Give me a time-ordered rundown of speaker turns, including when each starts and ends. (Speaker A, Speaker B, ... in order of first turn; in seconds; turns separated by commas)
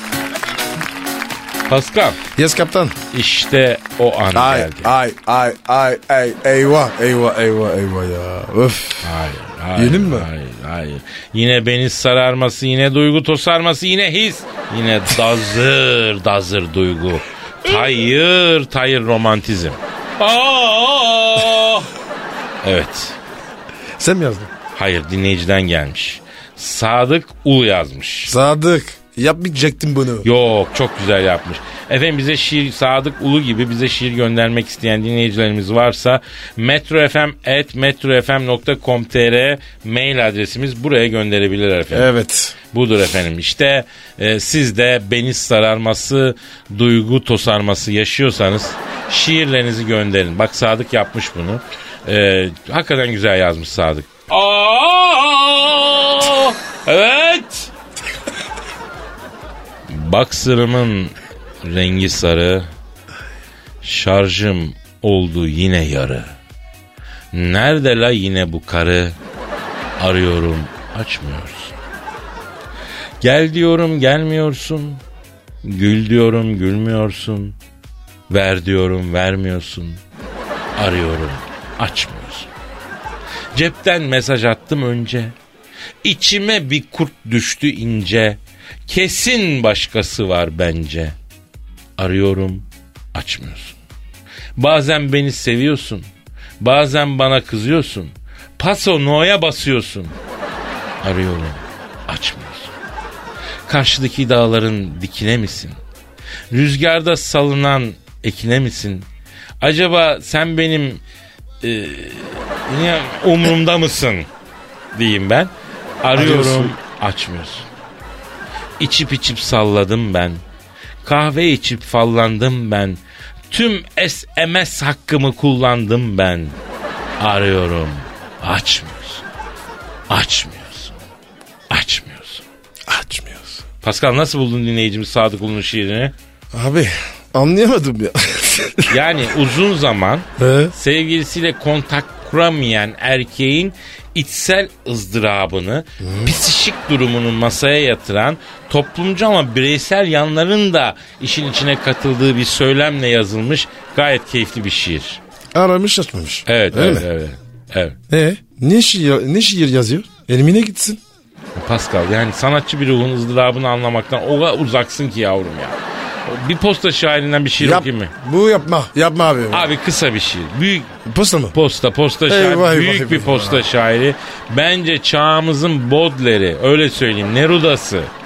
Speaker A: 1.7-2.2, Speaker B: 2.3-3.0, Speaker A: 3.1-4.9, Speaker B: 4.3-9.1, Speaker A: 9.0-21.9, Speaker B: 9.8-10.3, Speaker A: 22.6-23.2, Speaker B: 24.0-24.5, Speaker A: 24.7-28.3, Speaker B: 28.2-30.3, Speaker A: 30.2-42.1, Speaker B: 41.9-42.6, Speaker A: 42.7-57.7, Speaker A: 59.9-62.7, Speaker A: 63.8-66.3, Speaker A: 67.3-69.2, Speaker A: 70.0-71.8, Speaker A: 73.2-75.0, Speaker A: 75.6-77.5, Speaker A: 78.3-80.0, Speaker A: 80.8-82.5, Speaker A: 83.5-85.3, Speaker A: 86.0-91.2, Speaker A: 92.0-93.8, Speaker A: 94.6-96.0, Speaker A: 96.6-100.1, Speaker A: 101.0-102.7, Speaker A: 103.7-105.8, Speaker A: 106.5-109.1, Speaker A: 109.6-111.0, Speaker A: 111.6-114.3, Speaker A: 114.9-115.5, Speaker A: 116.0-117.7, Speaker B: 116.1-116.8, Speaker A: 118.8-120.4, Speaker A: 121.0-123.0, Speaker A: 123.5-126.5, Speaker A: 127.2-129.2, Speaker A: 130.1-130.9, Speaker A: 131.7-132.4, Speaker B: 132.9-133.6, Speaker A: 133.8-136.1, Speaker B: 136.5-138.9, Speaker A: 138.9-155.2, Speaker B: 140.4-140.7, Speaker B: 146.0-146.4, Speaker B: 155.5-157.1, Speaker A: 156.5-158.0, Speaker B: 158.1-161.0, Speaker A: 161.6-168.1, Speaker B: 167.6-169.7, Speaker A: 169.5-170.9, Speaker B: 171.1-171.5, Speaker A: 171.5-178.1, Speaker B: 172.3-173.7